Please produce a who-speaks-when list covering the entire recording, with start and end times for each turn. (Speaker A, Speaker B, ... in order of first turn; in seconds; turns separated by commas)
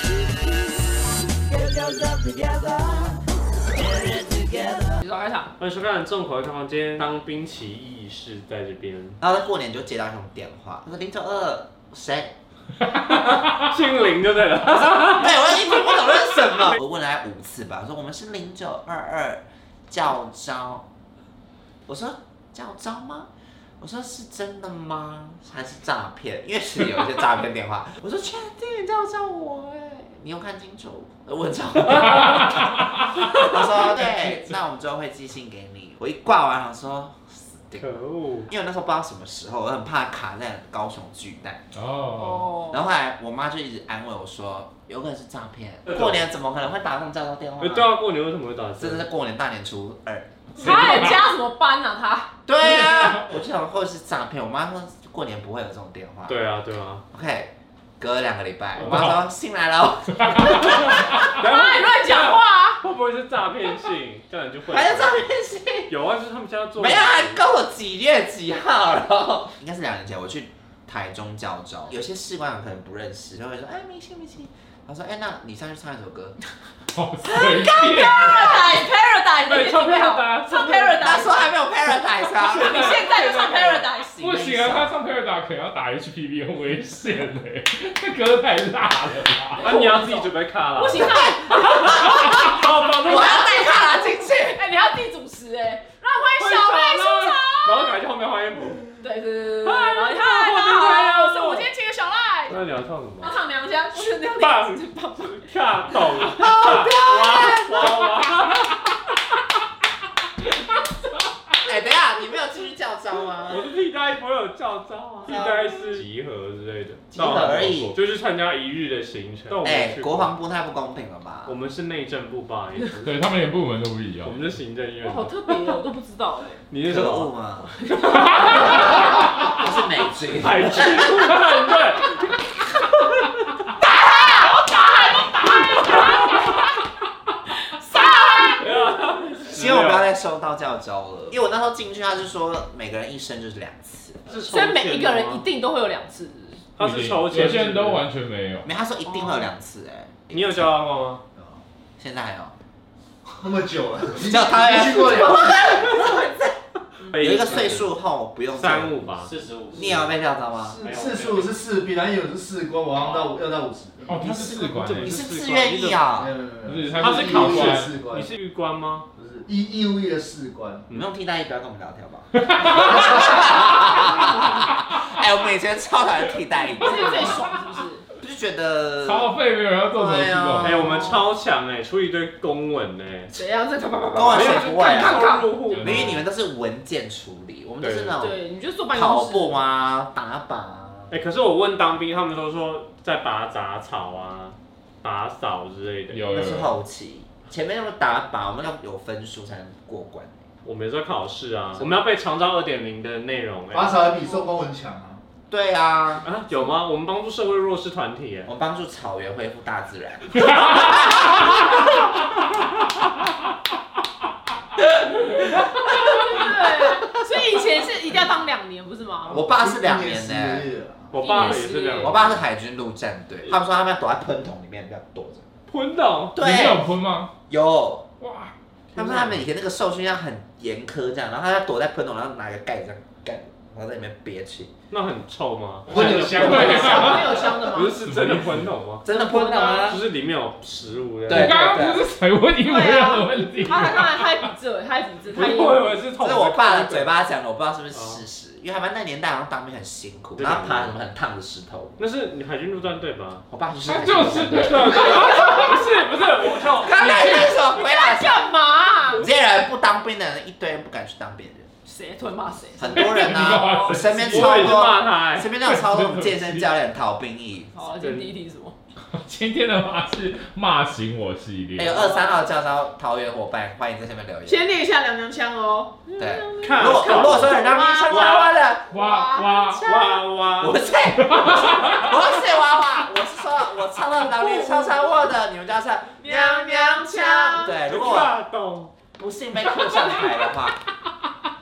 Speaker A: 1.4-5.0, Speaker B: 5.0-5.5, Speaker C: 5.6-9.2, Speaker A: 9.2-12.3, Speaker C: 13.0-16.8, Speaker A: 15.0-20.9, Speaker A: 21.9-23.3, Speaker A: 23.8-41.6, Speaker D: 32.1-33.0, Speaker C: 37.8-38.5, Speaker D: 41.7-42.5, Speaker B: 42.2-42.8, Speaker A: 42.7-47.9, Speaker C: 47.6-49.1, Speaker A: 48.8-50.6, Speaker B: 50.6-52.3, Speaker D: 50.6-51.1, Speaker A: 52.5-56.4, Speaker C: 56.3-57.0, Speaker A: 57.1-61.3, Speaker D: 58.8-59.2, Speaker D: 60.2-60.6, Speaker C: 60.6-65.3, Speaker B: 61.4-62.8, Speaker A: 64.7-65.9, Speaker C: 65.9-67.4, Speaker A: 66.8-76.4, Speaker D: 76.9-78.7, Speaker A: 77.2-78.6, Speaker B: 77.8-81.6, Speaker C: 79.5-81.1, Speaker A: 81.0-84.9, Speaker C: 82.4-83.0, Speaker B: 82.4-84.2, Speaker D: 84.2-89.7, Speaker C: 89.6-91.2, Speaker B: 89.6-92.0, Speaker A: 91.0-94.6, Speaker C: 91.8-93.7, Speaker D: 91.9-92.7, Speaker B: 93.2-97.9, Speaker C: 96.4-99.0, Speaker B: 99.0-102.7, Speaker C: 99.6-101.7, Speaker C: 102.5-103.4, Speaker B: 103.2-105.5, Speaker C: 104.0-108.8, Speaker A: 106.3-108.0, Speaker A: 111.6-113.7, Speaker C: 113.5-120.4, Speaker A: 115.3-116.0, Speaker A: 117.1-118.0, Speaker A: 119.6-121.6, Speaker C: 121.5-123.1, Speaker D: 123.0-124.4, Speaker C: 124.2-125.7, Speaker B: 125.0-126.6, Speaker C: 126.7-127.3, Speaker A: 126.8-127.9, Speaker B: 127.7-129.0, Speaker A: 128.6-131.3, Speaker C: 130.3-132.2, Speaker B: 133.9-136.8, Speaker B: 137.5-138.7, Speaker C: 138.6-140.1, Speaker A: 139.5-144.2, Speaker C: 144.3-145.5, Speaker B: 144.4-146.6, Speaker C: 146.8-148.1, Speaker D: 146.8-148.7, Speaker A: 148.7-150.5, Speaker B: 149.1-149.5, Speaker C: 150.3-151.2, Speaker E: 151.4-151.6, Speaker A: 152.0-152.6, Speaker E: 153.3-155.7, Speaker A: 154.2-156.5, Speaker B: 155.6-156.3, Speaker B: 157.0-157.3, Speaker C: 157.1-157.9, Speaker A: 157.2-159.0, Speaker C: 158.5-159.9, Speaker A: 159.7-160.8, Speaker E: 160.8-164.2, Speaker C: 160.8-161.6, Speaker C: 163.0-163.3, Speaker D: 164.1-165.2, Speaker A: 164.2-166.3, Speaker C: 164.3-166.1, Speaker E: 166.2-168.3, Speaker D: 166.7-167.9, Speaker C: 167.0-169.1, Speaker E: 169.2-170.9, Speaker A: 170.9-177.4, Speaker D: 172.4-173.0, Speaker B: 173.7-174.6, Speaker B: 176.7-178.1, Speaker D: 177.0-177.5, Speaker A: 178.2-179.3, Speaker D: 179.0-180.9, Speaker A: 179.9-180.9, Speaker C: 180.6-183.3, Speaker B: 180.8-181.2, Speaker B: 183.3-185.7, Speaker A: 184.1-188.4, Speaker C: 184.3-186.3, Speaker D: 185.9-186.1, Speaker C: 187.8-188.2, Speaker B: 188.2-189.7, Speaker A: 188.9-191.2, Speaker C: 191.1-196.3, Speaker D: 196.1-196.8, Speaker A: 196.3-200.4, Speaker C: 200.7-204.1, Speaker E: 203.7-205.2, Speaker A: 205.5-206.3, Speaker C: 206.2-208.5, Speaker A: 208.5-211.9, Speaker D: 210.4-210.9, Speaker B: 215.7-219.5, Speaker A: 219.3-220.7, Speaker E: 219.3-221.3, Speaker C: 221.1-222.4, Speaker B: 221.2-222.4, Speaker A: 221.3-225.5, Speaker C: 225.7-226.3, Speaker A: 226.3-226.9, Speaker D: 226.4-227.3, Speaker A: 227.5-228.1, Speaker D: 228.2-228.5, Speaker C: 228.9-229.4, Speaker A: 228.9-234.7, Speaker C: 234.9-239.0, Speaker E: 235.9-237.6, Speaker A: 236.2-237.1, Speaker D: 236.4-237.3, Speaker B: 236.4-238.0, Speaker D: 237.9-238.7, Speaker A: 239.0-240.1, Speaker B: 239.1-240.0, Speaker C: 239.8-241.6, Speaker A: 241.3-242.1, Speaker D: 241.3-244.5, Speaker B: 242.7-246.0, Speaker C: 245.3-247.1, Speaker A: 246.2-252.0, Speaker C: 247.9-248.2, Speaker C: 250.4-251.0, Speaker C: 252.0-253.4, Speaker A: 253.5-255.5, Speaker D: 253.8-256.3, Speaker C: 254.5-257.5, Speaker A: 256.8-258.5, Speaker B: 257.4-259.3, Speaker A: 259.1-261.7, Speaker B: 261.9-264.1, Speaker A: 262.8-267.8, Speaker D: 262.9-264.7, Speaker C: 264.2-265.5, Speaker D: 265.6-266.7, Speaker B: 267.8-268.8, Speaker C: 268.0-268.3, Speaker D: 269.1-272.1, Speaker A: 271.8-274.6, Speaker B: 272.1-272.4, Speaker B: 274.5-279.7, Speaker A: 276.2-279.0, Speaker C: 276.6-278.6, Speaker D: 278.9-279.8, Speaker A: 279.7-288.4, Speaker C: 279.8-280.9, Speaker D: 281.2-282.0, Speaker B: 284.2-285.1, Speaker B: 286.2-287.8, Speaker C: 287.9-288.9, Speaker A: 289.2-290.8, Speaker B: 289.8-290.2